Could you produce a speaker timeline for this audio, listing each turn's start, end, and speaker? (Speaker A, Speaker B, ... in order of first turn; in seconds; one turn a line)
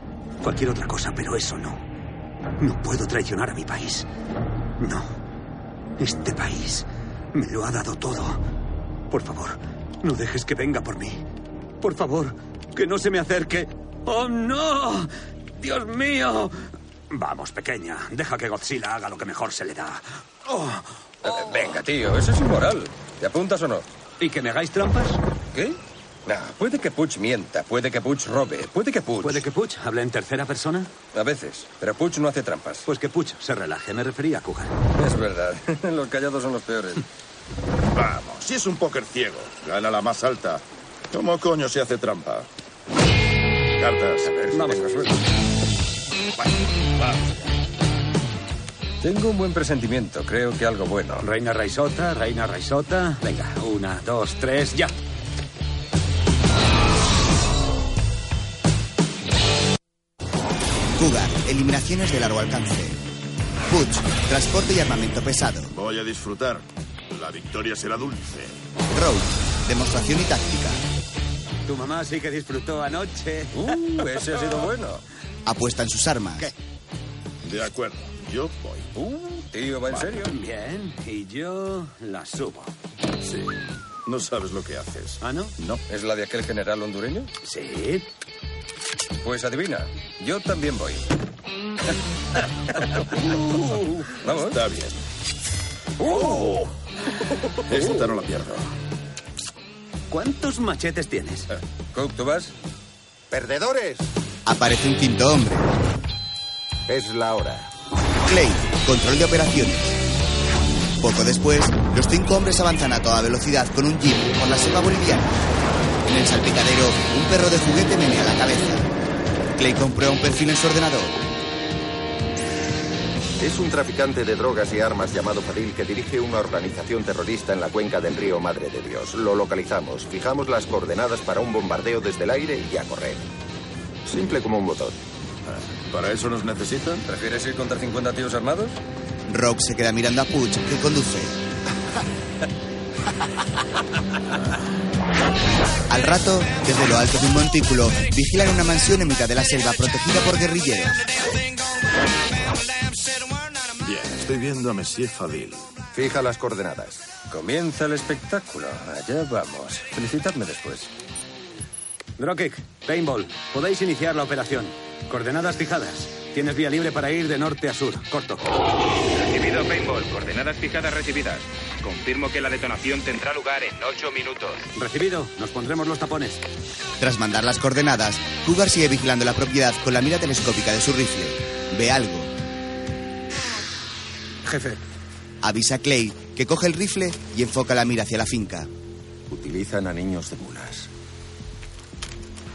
Speaker A: 0.4-1.8
Speaker A: 2.6-4.1
Speaker A: 4.8-5.1
Speaker A: 6.0-8.4
Speaker A: 9.1-11.2
Speaker A: 11.8-21.8
Speaker B: 21.2-23.9
Speaker A: 24.2-25.2
Speaker B: 25.5-29.4
Speaker A: 29.2-30.9
Speaker B: 31.1-32.9
Speaker A: 32.9-34.7
Speaker B: 35.0-37.1
Speaker C: 37.9-42.5
Speaker C: 43.8-44.6
Speaker A: 44.5-45.1
Speaker B: 44.6-45.0
Speaker B: 49.0-51.3
Speaker A: 51.2-54.9
Speaker D: 60.9-63.0
Speaker D: 63.7-65.7
Speaker C: 65.7-68.6
Speaker D: 68.9-70.8
Speaker A: 71.7-74.0
Speaker B: 73.5-75.0
Speaker D: 75.5-76.5
Speaker C: 77.4-78.9
Speaker B: 79.0-80.3
Speaker A: 80.2-82.7
Speaker C: 83.2-83.5
Speaker C: 84.1-85.8
Speaker A: 85.2-85.5
Speaker B: 85.9-87.3
Speaker A: 87.4-88.1
Speaker B: 89.2-91.1
Speaker B: 92.8-94.6
Speaker C: 94.4-95.0
Speaker B: 96.0-96.4
Speaker C: 96.2-96.6
Speaker C: 97.7-98.7
Speaker A: 100.1-101.5
Speaker B: 101.9-102.5
Speaker E: 103.3-104.1
Speaker D: 104.5-105.7
Speaker E: 106.9-107.7
Speaker D: 108.2-110.0
Speaker D: 111.0-115.4
Speaker D: 116.1-118.9
Speaker D: 119.6-121.2
Speaker E: 123.4-133.3
Speaker E: 134.1-135.0
Speaker C: 135.5-137.1
Speaker B: 137.1-138.8
Speaker D: 139.3-141.4
Speaker D: 145.9-151.1
Speaker C: 153.8-155.7
Speaker E: 155.9-157.1
Speaker B: 157.3-160.9
Speaker A: 162.2-168.6
Speaker F: 169.2-174.7
Speaker A: 174.8-176.4
Speaker D: 177.0-182.3
Speaker A: 184.4-184.8
Speaker D: 185.4-188.7
Speaker E: 189.3-190.9